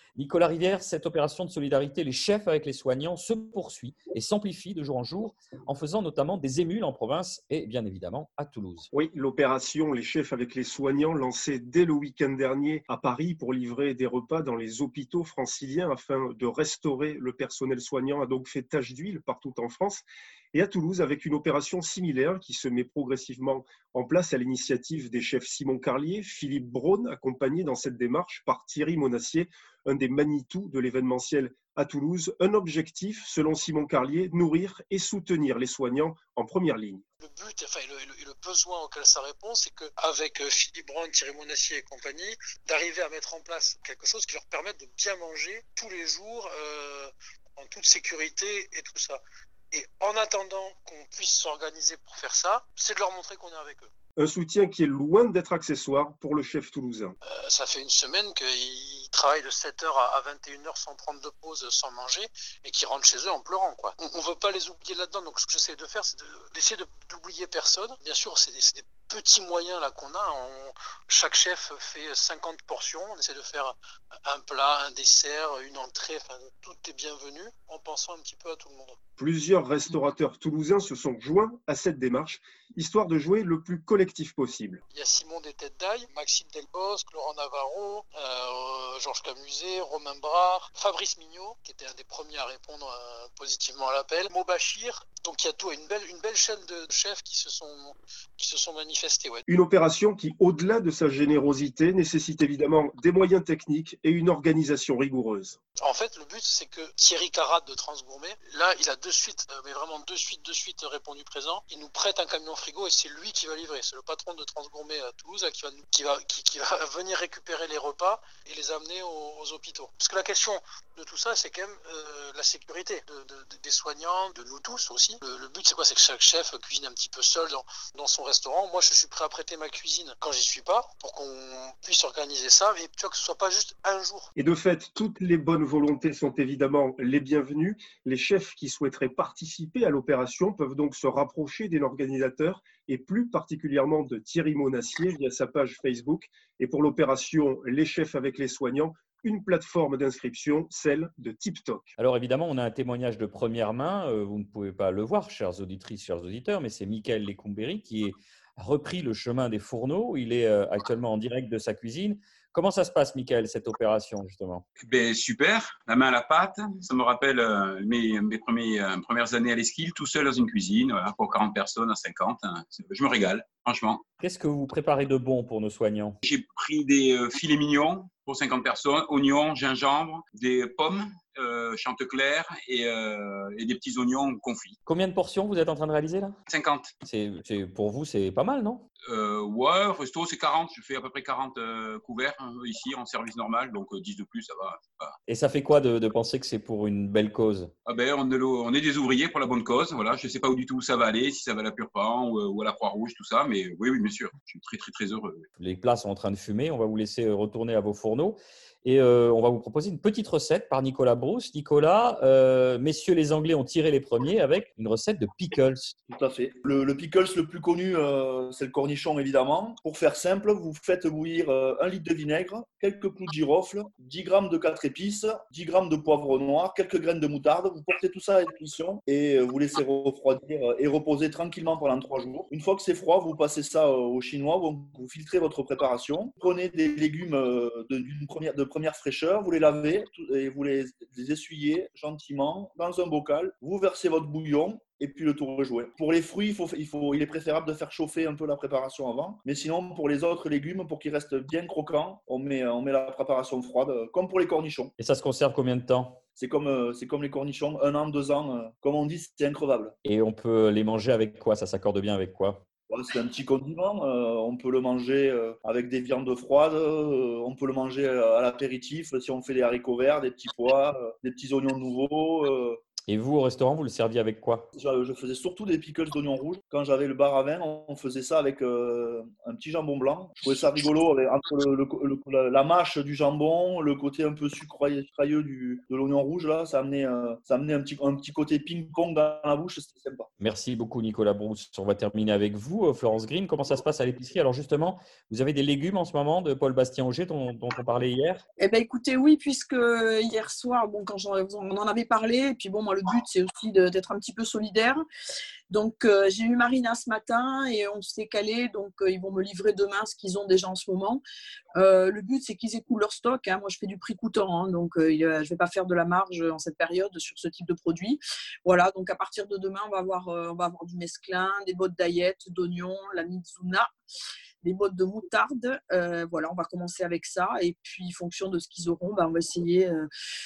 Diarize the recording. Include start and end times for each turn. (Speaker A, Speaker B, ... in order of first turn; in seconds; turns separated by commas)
Speaker A: 0.2-8.9, Speaker B: 8.9-37.0, Speaker C: 37.2-49.2, Speaker C: 49.7-53.9, Speaker B: 54.2-57.2, Speaker C: 57.3-73.8, Speaker C: 74.2-79.0, Speaker B: 79.2-84.8, Speaker C: 84.9-99.4, Speaker B: 99.5-105.6, Speaker C: 105.8-134.3, Speaker B: 134.4-151.9, Speaker A: 152.0-164.6, Speaker D: 164.8-174.1, Speaker A: 174.2-176.2, Speaker D: 176.2-184.8, Speaker A: 184.9-186.4, Speaker D: 186.5-186.9, Speaker A: 187.0-188.9, Speaker D: 189.0-195.2, Speaker A: 195.3-197.7, Speaker D: 197.8-205.5, Speaker A: 205.6-215.9, Speaker E: 216.1-254.9, Speaker A: 255.0-256.2, Speaker E: 256.4-259.9, Speaker A: 260.1-262.6, Speaker E: 262.9-272.8, Speaker A: 273.1-274.7, Speaker E: 274.8-290.3, Speaker A: 290.4-298.4, Speaker F: 298.6-305.0, Speaker F: 305.7-311.2, Speaker F: 311.8-323.9, Speaker F: 324.6-330.1